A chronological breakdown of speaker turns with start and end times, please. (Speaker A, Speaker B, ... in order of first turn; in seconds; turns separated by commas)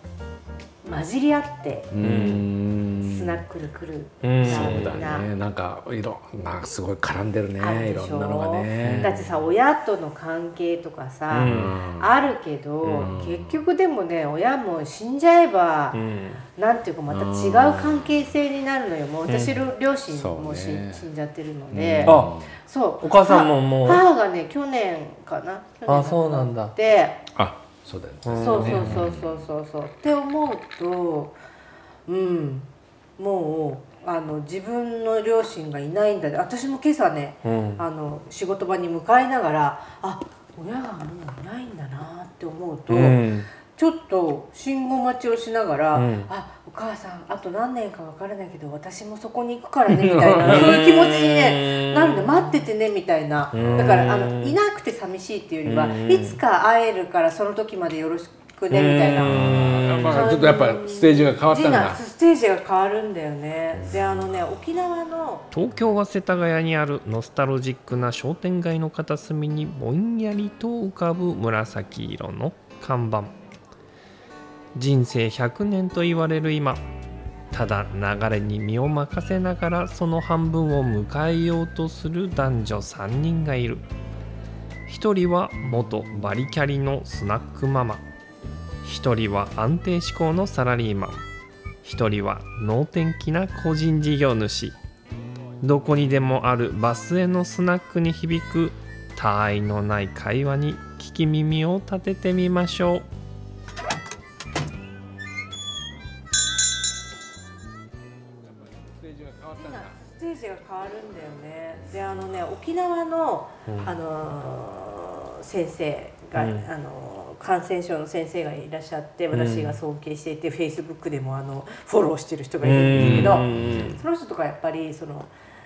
Speaker A: 0.8-1.9, Speaker B: 1.9-3.4, Speaker C: 2.0-2.5, Speaker A: 3.0-5.3, Speaker C: 4.2-5.1, Speaker B: 4.5-9.3, Speaker A: 7.6-16.0, Speaker C: 8.8-9.3, Speaker C: 11.3-11.8, Speaker B: 11.3-12.1, Speaker C: 12.8-13.1, Speaker B: 12.9-13.6, Speaker C: 15.9-16.4, Speaker A: 16.6-27.2, Speaker B: 17.1-18.3, Speaker C: 19.3-19.7, Speaker B: 20.1-21.1, Speaker B: 21.7-22.6, Speaker C: 22.0-22.3, Speaker C: 23.0-24.0, Speaker C: 25.9-26.8, Speaker B: 27.3-29.2, Speaker C: 28.2-29.1, Speaker A: 28.4-31.4, Speaker A: 32.0-65.5, Speaker C: 37.4-37.8, Speaker C: 42.9-43.5, Speaker C: 45.9-46.3, Speaker B: 49.9-50.8, Speaker C: 50.4-52.6, Speaker C: 53.5-54.6, Speaker B: 53.5-53.9, Speaker C: 55.6-56.4, Speaker C: 58.7-60.3, Speaker B: 59.2-62.0, Speaker C: 65.5-73.3, Speaker C: 74.8-76.8, Speaker C: 77.5-83.9, Speaker C: 84.9-88.0, Speaker C: 88.8-91.2, Speaker C: 91.8-94.8, Speaker C: 95.6-103.0, Speaker B: 109.1-109.9, Speaker A: 109.5-125.3, Speaker C: 113.7-113.9, Speaker C: 116.3-116.7, Speaker C: 119.3-119.8, Speaker C: 122.6-124.0, Speaker B: 122.9-123.9